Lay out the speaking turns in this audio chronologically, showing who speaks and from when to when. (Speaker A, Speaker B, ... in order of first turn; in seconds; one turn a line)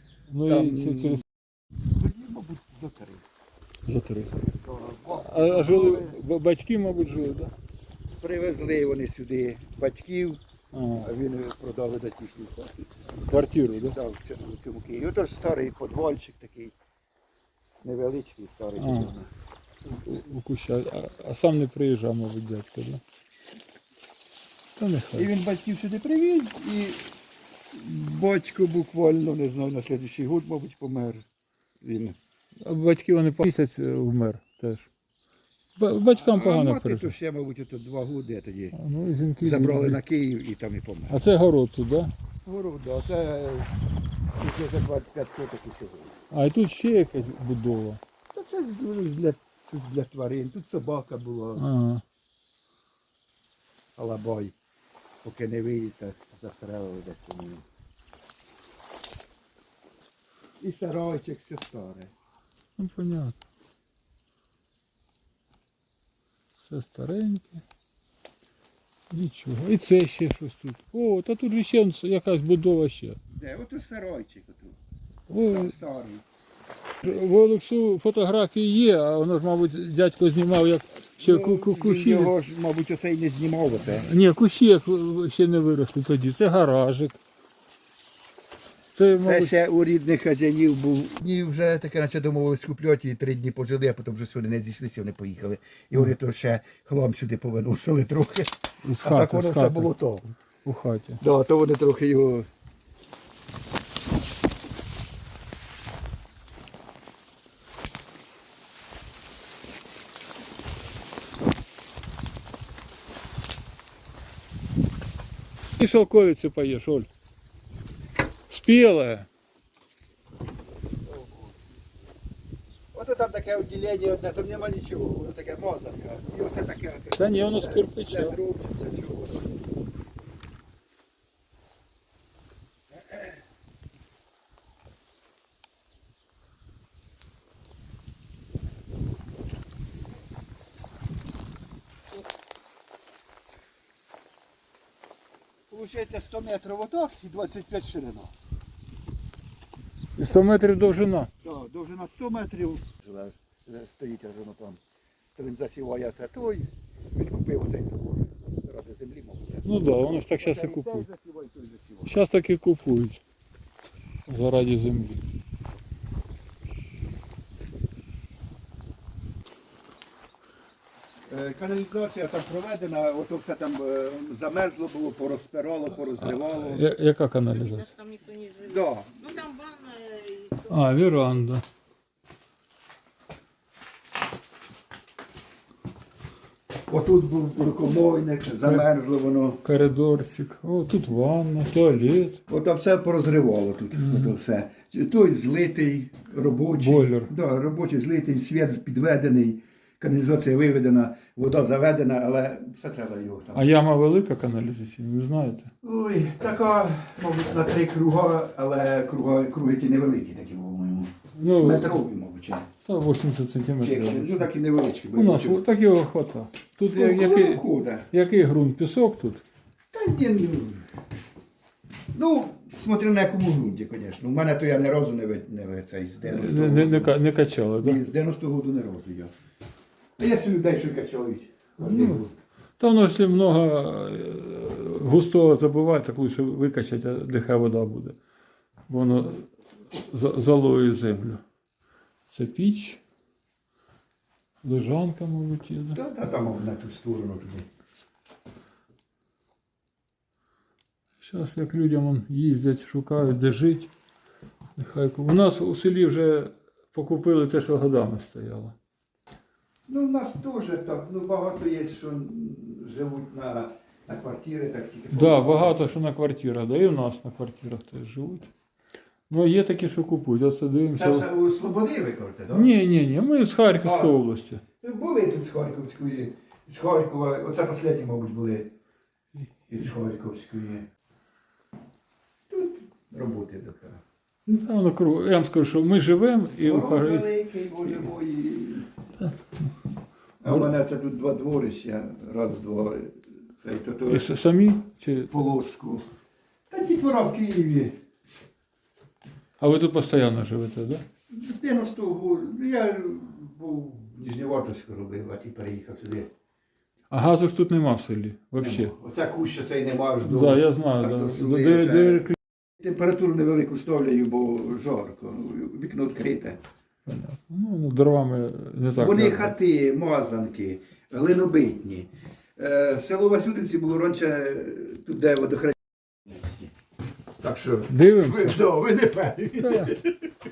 Speaker A: 0.3-1.2
Speaker B: 0.5-1.2
Speaker B: 1.8-3.2
Speaker A: 3.9-4.3
Speaker B: 4.5-6.2
Speaker A: 5.1-7.5
Speaker B: 8.2-10.4
Speaker A: 10.7-11.1
Speaker B: 11.0-12.9
Speaker A: 13.3-14.0
Speaker B: 13.6-16.7
Speaker B: 17.8-19.3
Speaker A: 18.8-19.2
Speaker A: 19.9-23.0
Speaker A: 24.8-25.3
Speaker B: 25.1-27.2
Speaker B: 27.7-31.2
Speaker B: 31.8-32.2
Speaker A: 32.6-34.9
Speaker A: 35.8-37.1
Speaker B: 36.1-38.8
Speaker A: 38.7-40.0
Speaker B: 39.4-41.2
Speaker A: 41.1-42.1
Speaker B: 42.5-43.7
Speaker B: 44.4-46.2
Speaker A: 46.3-48.0
Speaker B: 48.3-51.6
Speaker A: 51.6-52.0
Speaker B: 54.0-54.5
Speaker B: 55.2-57.6
Speaker B: 60.6-62.1
Speaker A: 62.8-63.4
Speaker A: 66.6-67.6
Speaker A: 69.1-73.2
Speaker B: 73.3-74.8
Speaker A: 75.3-75.8
Speaker B: 75.3-76.2
Speaker A: 77.0-82.3
Speaker B: 81.2-84.1
Speaker A: 83.8-87.2
Speaker A: 89.0-89.5
Speaker B: 89.2-100.3
Speaker A: 98.8-99.9
Speaker A: 100.7-101.2
Speaker B: 101.2-102.5
Speaker A: 115.8-117.1
Speaker A: 118.5-119.3
Speaker B: 121.1-121.5
Speaker B: 122.9-129.6
Speaker A: 127.2-128.4
Speaker B: 132.9-133.3
Speaker B: 145.7-148.3
Speaker A: 150.2-151.3
Speaker B: 151.4-154.8
Speaker B: 155.4-162.2
Speaker A: 159.6-161.1
Speaker A: 162.1-163.2
Speaker A: 164.3-165.2
Speaker B: 171.3-176.9
Speaker A: 176.2-177.9
Speaker C: 177.6-180.7
Speaker B: 178.6-179.4
Speaker A: 180.6-181.6
Speaker B: 186.9-189.6
Speaker A: 189.6-192.4
Speaker B: 192.5-203.7
Speaker A: 193.9-194.3
Speaker A: 196.7-197.3
Speaker A: 203.6-205.7
Speaker B: 205.8-212.7
Speaker A: 211.4-212.0
Speaker A: 212.9-214.5
Speaker B: 213.8-215.6
Speaker A: 215.2-219.4
Speaker B: 216.9-218.1
Speaker B: 219.9-220.8
Speaker B: 222.1-227.2
Speaker A: 226.2-228.0
Speaker B: 227.8-229.3
Speaker B: 230.2-232.3
Speaker A: 231.8-232.2
Speaker A: 232.8-238.2
Speaker A: 238.9-241.4
Speaker A: 242.3-243.0
Speaker A: 244.6-246.0
Speaker B: 245.9-247.7
Speaker A: 251.2-253.9
Speaker A: 254.8-258.8
Speaker B: 259.9-265.9
Speaker A: 265.1-268.5
Speaker A: 269.3-271.3
Speaker B: 271.0-272.7
Speaker A: 272.5-274.6
Speaker B: 273.8-274.2
Speaker B: 274.8-278.7
Speaker B: 279.7-280.9
Speaker B: 282.5-284.0
Speaker A: 284.5-287.3
Speaker B: 286.6-288.9
Speaker B: 290.4-294.3
Speaker A: 294.1-295.3
Speaker B: 295.3-296.1
Speaker B: 296.7-297.9
Speaker A: 299.6-301.0
Speaker B: 301.3-306.3
Speaker A: 307.1-308.9
Speaker B: 308.6-316.6
Speaker A: 310.2-312.4
Speaker A: 317.1-319.6
Speaker B: 319.0-326.7
Speaker B: 327.4-330.1
Speaker A: 327.9-328.6
Speaker A: 329.6-330.0